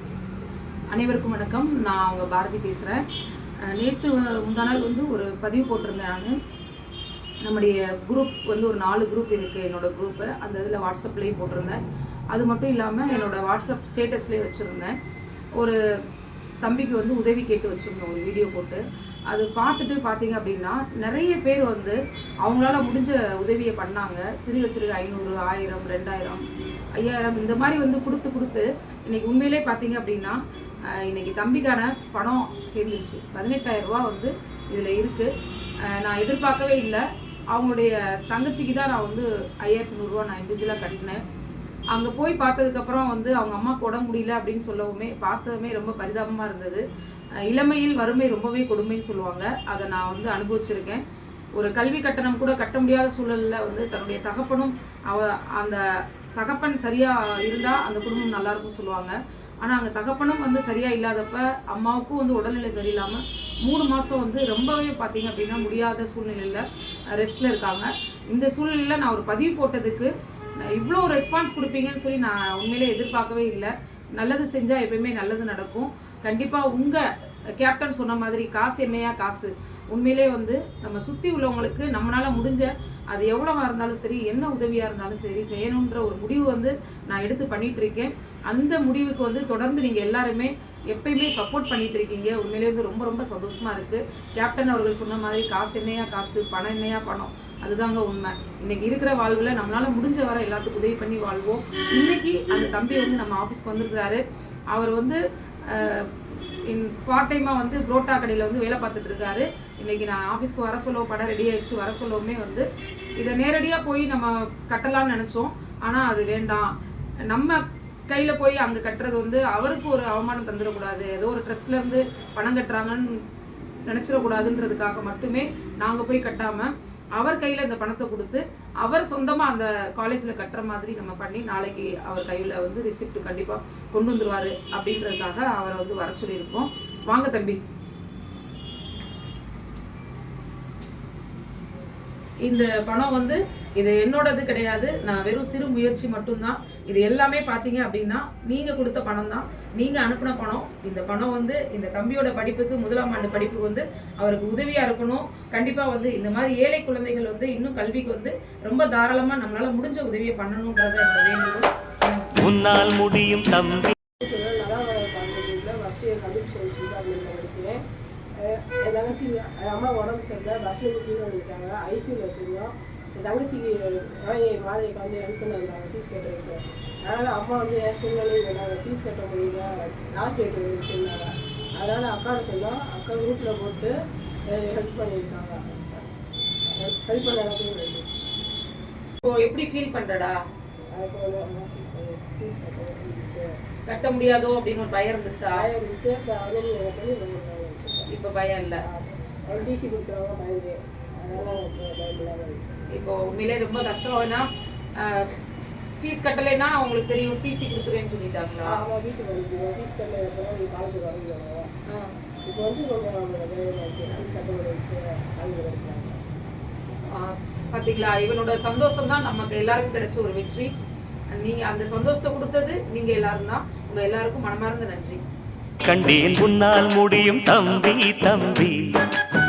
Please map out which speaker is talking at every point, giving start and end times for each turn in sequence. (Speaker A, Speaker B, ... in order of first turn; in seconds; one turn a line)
Speaker A: 0.9-3.0
Speaker A: 3.7-6.3
Speaker A: 7.4-11.8
Speaker A: 12.3-14.9
Speaker A: 16.6-26.4
Speaker A: 27.0-30.4
Speaker A: 30.9-35.3
Speaker A: 35.9-37.0
Speaker A: 37.5-41.2
Speaker A: 41.9-46.8
Speaker A: 47.5-51.0
Speaker A: 51.5-55.8
Speaker A: 56.3-66.6
Speaker A: 67.2-70.1
Speaker A: 70.6-77.0
Speaker A: 77.6-104.2
Speaker A: 104.7-106.1
Speaker A: 106.7-112.6
Speaker A: 113.2-116.7
Speaker A: 117.3-123.1
Speaker A: 123.9-137.6
Speaker A: 142.4-162.3
Speaker B: 162.3-163.9
Speaker C: 164.2-167.8
Speaker C: 168.4-183.9
Speaker C: 184.5-186.0
Speaker C: 186.7-188.0
Speaker A: 189.2-190.4
Speaker C: 190.9-193.5
Speaker A: 193.9-195.7
Speaker C: 195.5-198.1
Speaker A: 198.1-198.8
Speaker C: 198.8-202.7
Speaker A: 202.9-204.4
Speaker A: 205.0-205.4
Speaker A: 206.0-208.8
Speaker C: 208.6-211.7
Speaker A: 211.9-212.1
Speaker C: 212.4-216.2
Speaker A: 217.1-220.7
Speaker A: 221.3-225.2
Speaker B: 225.8-228.8